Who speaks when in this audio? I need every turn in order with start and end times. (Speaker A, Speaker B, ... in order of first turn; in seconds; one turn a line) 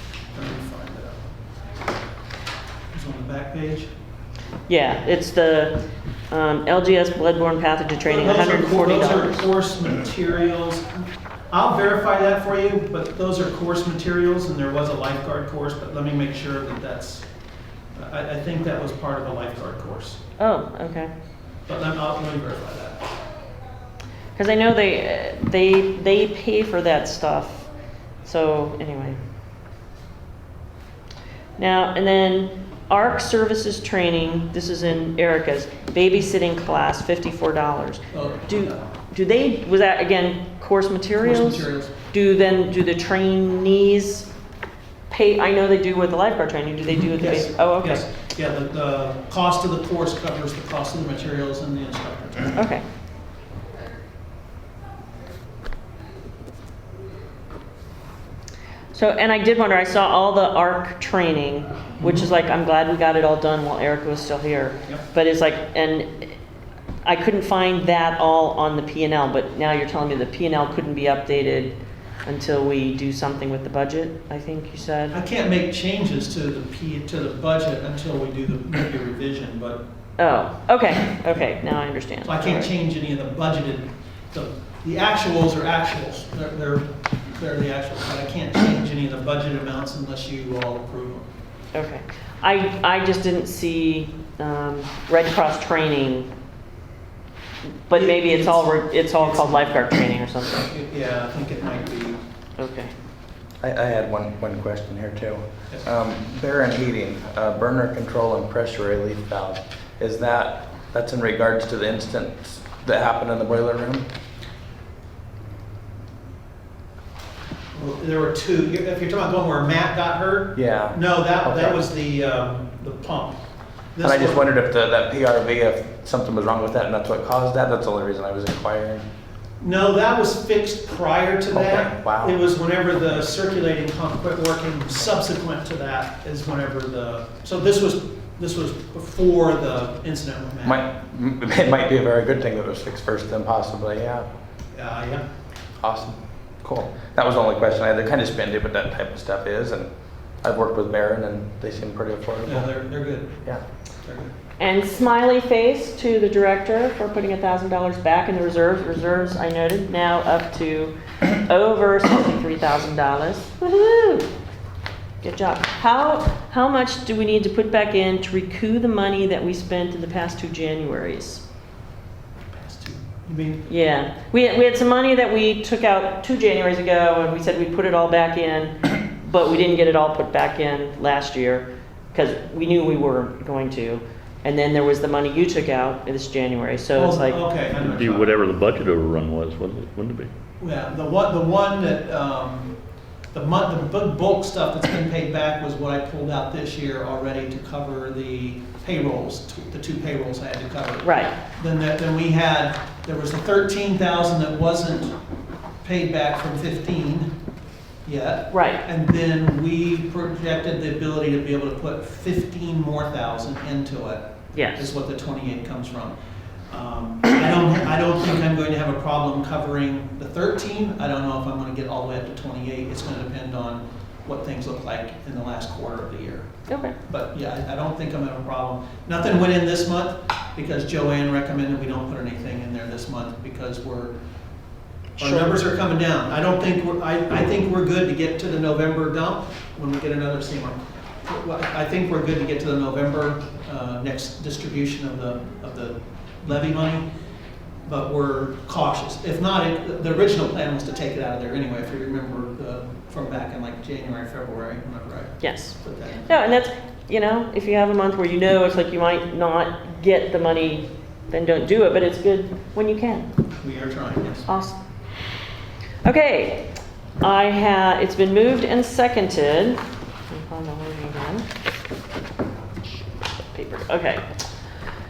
Speaker A: 0.3-1.2
Speaker A: 2.9-3.9
Speaker B: 4.7-9.4
Speaker A: 8.0-10.9
Speaker A: 11.5-17.3
Speaker A: 17.9-20.2
Speaker B: 20.4-21.1
Speaker A: 21.7-23.0
Speaker B: 24.4-27.7
Speaker B: 28.2-29.2
Speaker B: 31.6-44.3
Speaker A: 38.1-38.8
Speaker A: 41.2-42.0
Speaker B: 45.1-48.0
Speaker A: 46.9-52.6
Speaker B: 52.5-52.8
Speaker B: 58.9-66.3
Speaker B: 67.0-75.2
Speaker A: 75.1-79.8
Speaker B: 80.2-82.7
Speaker A: 82.2-91.3
Speaker B: 91.7-96.3
Speaker B: 97.9-100.7
Speaker A: 97.9-99.9
Speaker A: 100.6-102.2
Speaker B: 102.6-102.9
Speaker C: 103.6-114.0
Speaker A: 117.7-123.4
Speaker C: 120.5-121.8
Speaker A: 123.9-124.4
Speaker C: 124.0-129.0
Speaker A: 129.6-140.8
Speaker C: 131.5-132.4
Speaker C: 140.6-144.3
Speaker A: 144.7-145.2
Speaker C: 145.8-149.9
Speaker C: 150.4-152.7
Speaker A: 152.4-153.4
Speaker A: 154.0-154.3
Speaker B: 154.6-164.3
Speaker B: 165.2-171.4
Speaker A: 172.5-173.7
Speaker B: 173.7-187.4
Speaker A: 186.9-188.3
Speaker D: 187.8-190.3
Speaker A: 190.6-192.7
Speaker A: 193.3-205.1
Speaker B: 201.0-201.3
Speaker A: 205.8-207.3
Speaker A: 208.0-216.1
Speaker B: 208.5-208.8
Speaker B: 214.5-214.9
Speaker A: 216.7-226.5
Speaker B: 226.7-226.9
Speaker A: 227.1-234.1
Speaker B: 235.2-235.6
Speaker A: 235.2-247.0
Speaker A: 247.8-256.4
Speaker B: 255.4-263.3
Speaker A: 263.6-264.5
Speaker B: 264.5-264.8
Speaker B: 266.0-271.5
Speaker B: 273.5-274.2